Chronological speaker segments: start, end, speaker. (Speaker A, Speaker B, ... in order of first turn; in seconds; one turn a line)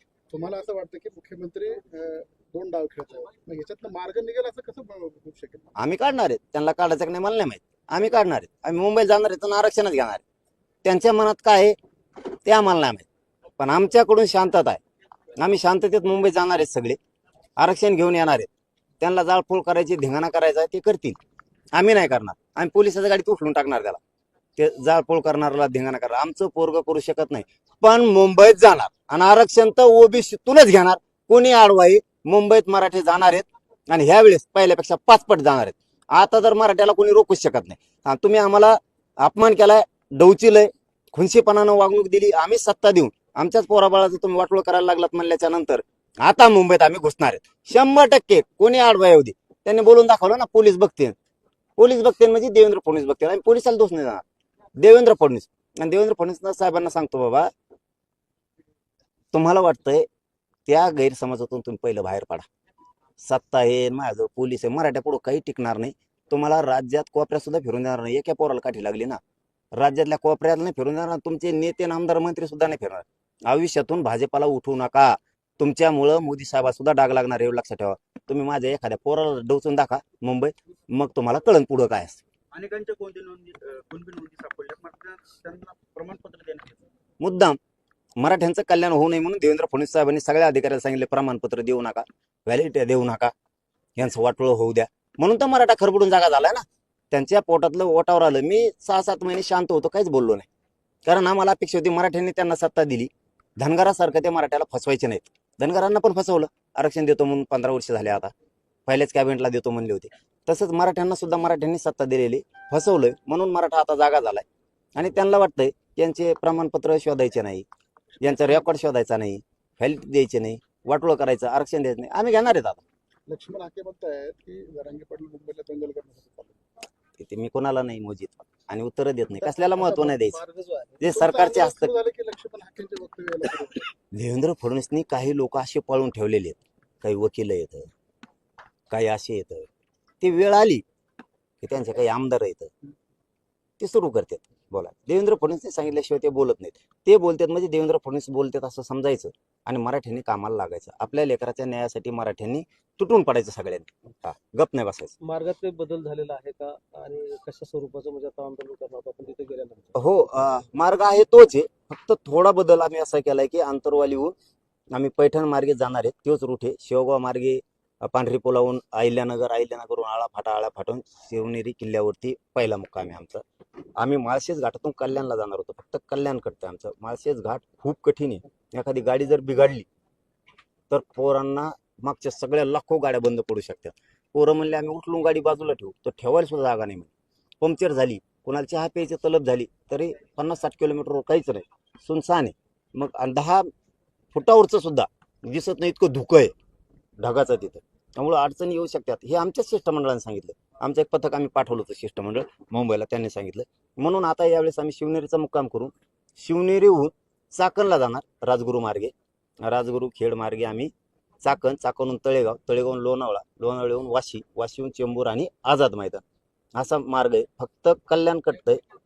Speaker A: 0.3-5.7
Speaker B: 5.8-10.2
Speaker B: 10.8-11.8
Speaker B: 12.4-13.1
Speaker B: 13.6-14.8
Speaker B: 15.4-17.0
Speaker B: 17.6-18.5
Speaker B: 19.0-21.2
Speaker B: 21.7-24.0
Speaker B: 24.6-51.1
Speaker B: 51.8-54.2
Speaker B: 54.8-57.5
Speaker B: 59.3-60.1
Speaker B: 60.7-62.5
Speaker B: 63.2-69.2
Speaker B: 69.7-82.2
Speaker C: 82.5-86.8
Speaker B: 87.2-87.6
Speaker B: 88.2-93.3
Speaker B: 94.0-100.5
Speaker B: 101.0-108.3
Speaker B: 108.9-114.4
Speaker B: 115.0-117.7
Speaker B: 118.2-122.8
Speaker A: 123.3-126.6
Speaker B: 127.2-130.4
Speaker D: 129.8-130.9
Speaker B: 131.0-131.9
Speaker A: 131.0-133.9
Speaker B: 134.1-137.9
Speaker B: 138.9-139.7
Speaker B: 140.2-140.8
Speaker B: 141.6-142.7
Speaker B: 143.8-155.1
Speaker D: 155.2-159.9
Speaker B: 159.9-164.3
Speaker B: 164.9-173.4
Speaker B: 174.0-179.8
Speaker B: 180.9-193.7
Speaker B: 194.3-196.5
Speaker B: 197.2-216.2
Speaker B: 216.8-218.8